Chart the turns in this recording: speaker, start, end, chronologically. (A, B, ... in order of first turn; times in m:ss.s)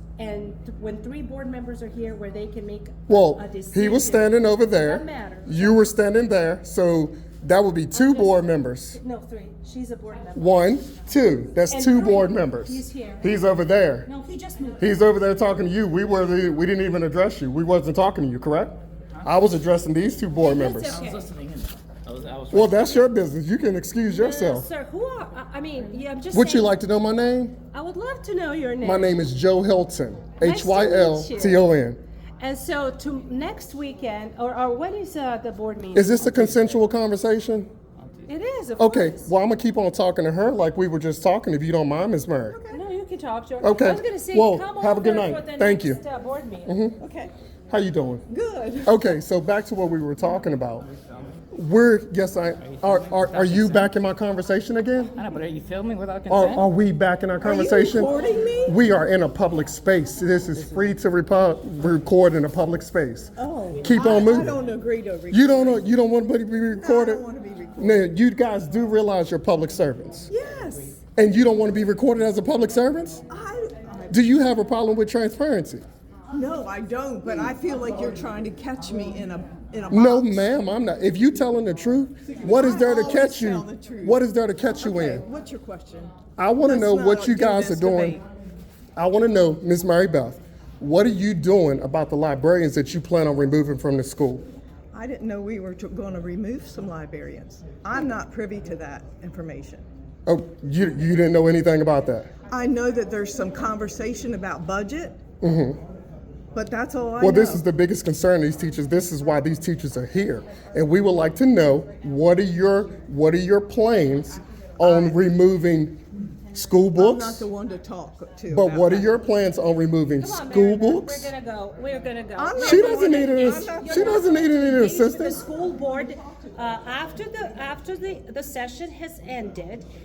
0:00.2-0:05.9 A
0:03.1-0:09.0 B
0:07.9-0:08.3 A
0:09.0-0:10.6 A
0:10.3-0:14.1 B
0:11.7-0:13.4 A
0:14.0-0:15.0 A
0:14.8-0:21.0 B
0:20.4-0:21.3 A
0:20.9-0:22.9 C
0:22.5-0:24.7 B
0:24.1-0:26.8 A
0:26.3-0:27.6 B
0:27.7-0:29.2 A
0:28.8-0:32.0 B
0:30.4-0:31.7 A
0:32.4-0:36.5 A
0:35.9-0:37.7 B
0:38.3-0:39.3 A
0:38.8-0:42.6 B
0:42.4-0:42.8 D
0:42.7-0:46.7 A
0:43.6-0:46.0 B
0:46.6-0:47.0 B
0:47.0-0:47.3 D
0:47.7-0:48.2 B
0:48.3-0:49.2 D
0:48.8-0:50.9 B
0:51.5-0:55.2 B
0:52.6-0:53.9 C
0:55.2-0:56.6 C
0:56.3-1:04.6 B
0:57.4-0:58.8 D
1:03.4-1:05.8 D
1:05.3-1:07.2 B
1:06.8-1:08.0 D
1:07.8-1:10.3 B
1:10.3-1:11.0 D
1:11.2-1:13.2 B
1:13.3-1:14.2 D
1:14.1-1:15.8 B
1:16.3-1:20.4 D
1:19.9-1:25.2 B
1:22.4-1:24.2 D
1:24.8-1:28.2 D
1:26.4-1:28.2 B
1:29.0-1:34.4 B
1:34.9-1:39.8 D
1:40.2-1:42.3 B
1:42.5-1:45.2 D
1:45.4-1:45.8 B
1:46.5-1:47.6 D
1:47.2-1:56.0 B
1:54.8-1:55.2 D
1:56.5-1:57.4 B
1:57.0-1:59.0 D
1:58.5-2:01.3 B
2:00.2-2:09.9 A
2:02.4-2:04.4 D
2:02.6-2:05.4 B